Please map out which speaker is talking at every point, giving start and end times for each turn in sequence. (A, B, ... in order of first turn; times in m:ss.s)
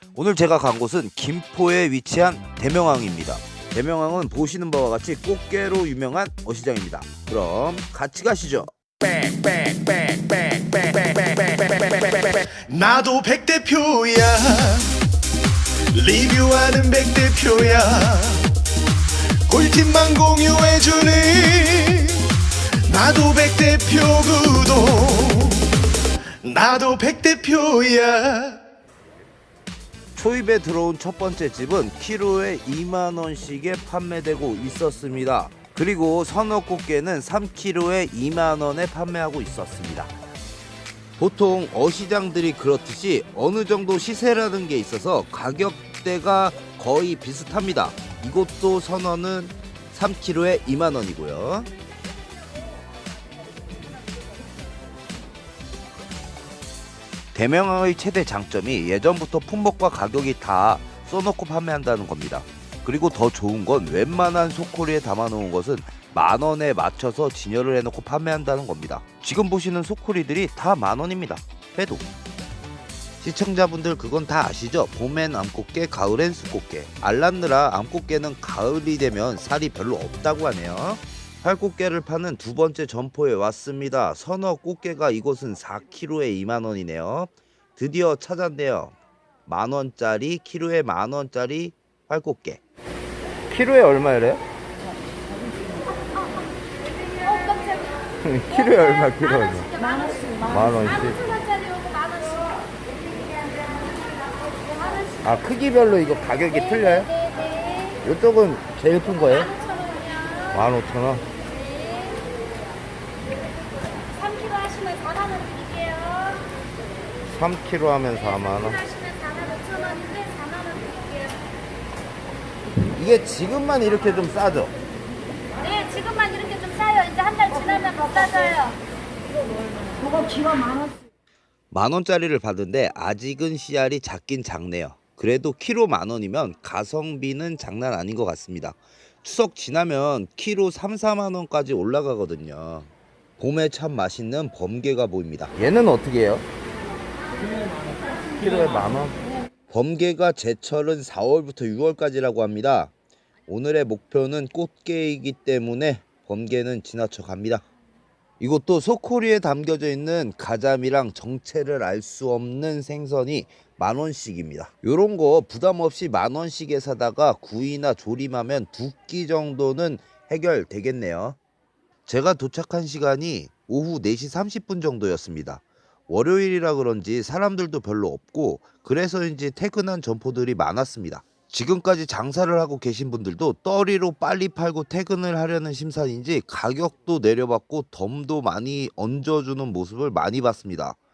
0:00.1-0:08.7 A
0:11.0-0:14.9 B
0:15.9-0:18.5 B
0:19.5-0:22.3 B
0:22.9-0:25.7 B
0:26.4-0:28.6 B
0:30.2-0:40.1 A
0:41.2-0:51.7 A
0:57.3-1:12.0 A
1:13.2-1:28.9 A
1:29.4-1:32.6 A
1:33.5-1:34.4 A
1:37.4-1:37.8 C
1:38.2-1:39.7 A
1:39.8-1:40.4 C
1:40.4-1:41.2 A
1:41.3-1:42.5 C
1:45.2-1:47.2 A
1:47.4-1:47.9 C
1:48.0-1:49.5 A
1:50.0-1:50.3 C
1:50.5-1:51.2 A
1:54.2-1:56.4 C
1:57.3-1:58.8 A
1:58.9-2:01.1 C
2:02.9-2:04.7 A
2:05.6-2:08.8 C
2:11.7-2:26.4 A
2:28.4-2:32.9 A
2:33.5-2:37.6 A
2:38.4-2:51.4 A
2:52.0-3:11.0 A